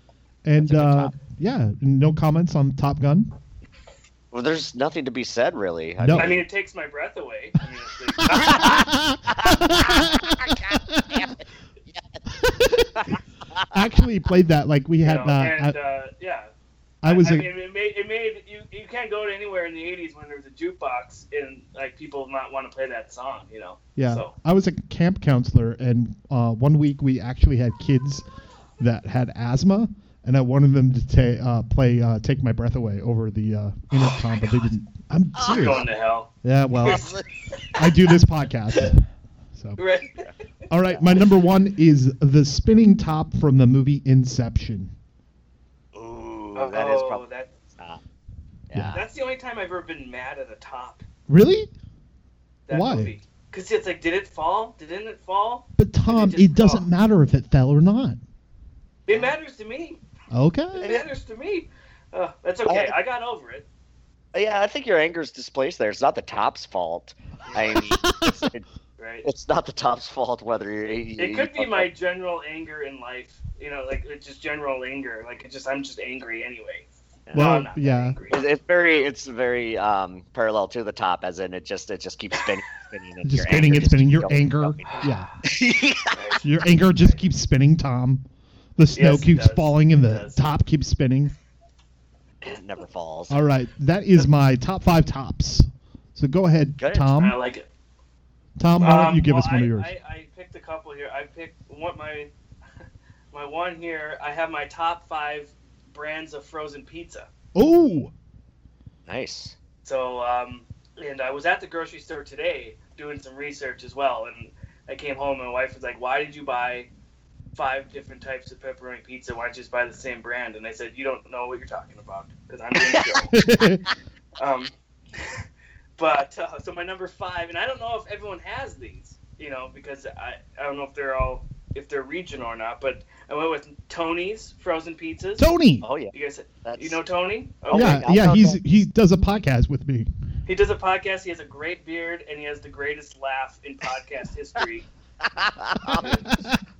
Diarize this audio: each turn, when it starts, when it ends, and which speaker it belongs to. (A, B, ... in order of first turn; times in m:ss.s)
0:00.4-0:03.3 A
0:00.6-0:01.2 B
0:04.3-0:06.4 B
0:06.0-0:06.3 A
0:06.2-0:08.7 C
0:08.2-0:11.3 A
0:08.4-0:12.2 B
0:12.3-0:13.2 A
0:12.8-0:13.8 B
0:13.7-0:15.8 A
0:15.0-0:16.5 C
0:17.0-0:17.5 A
0:17.0-0:24.3 C
0:24.0-0:28.2 A
0:28.8-0:35.8 A
0:35.4-0:35.8 B
0:35.4-0:36.3 C
0:36.4-0:37.0 A
0:36.8-0:37.2 B
0:37.8-0:39.8 A
0:39.8-0:40.2 C
0:40.7-0:44.9 A
0:40.9-0:41.2 B
0:45.9-0:48.0 B
0:46.5-0:47.5 C
0:48.7-0:49.0 B
0:48.7-0:49.0 A
0:48.9-0:51.0 C
0:51.3-0:51.7 A
0:52.7-0:56.9 C
0:52.7-0:53.1 A
0:55.8-0:58.2 A
0:59.0-1:00.0 C
0:59.1-0:59.3 B
1:00.3-1:00.9 A
1:00.7-1:03.6 C
1:02.6-1:02.9 B
1:04.3-1:08.6 B
1:07.5-1:07.8 C
1:07.9-1:08.5 A
1:09.0-1:09.2 C
1:09.2-1:11.9 B
1:11.2-1:18.4 C
1:17.3-1:17.6 B
1:17.3-1:18.2 A
1:18.3-1:26.2 B
1:23.2-1:25.3 A
1:24.9-1:25.3 C
1:26.1-1:26.4 C
1:26.4-1:28.2 A
1:28.8-1:31.3 A
1:28.9-1:30.4 C
1:32.4-1:33.4 B
1:33.3-1:37.4 A
1:36.8-1:37.1 B
1:37.2-1:37.7 C
1:38.6-1:39.9 A
1:38.8-1:42.3 C
1:43.3-1:47.3 C
1:47.5-1:48.1 A
1:49.1-1:49.5 B
1:49.8-1:56.9 C
1:57.5-2:03.3 C
2:03.3-2:03.8 A
2:04.4-2:04.7 C
2:06.0-2:15.5 C
2:15.4-2:15.8 A
2:15.8-2:16.1 B
2:16.1-2:18.0 C
2:16.6-2:17.0 B
2:17.7-2:18.6 B
2:17.7-2:20.1 A
2:20.5-2:24.8 C
2:25.2-2:26.2 B
2:25.9-2:26.6 A
2:25.9-2:26.3 C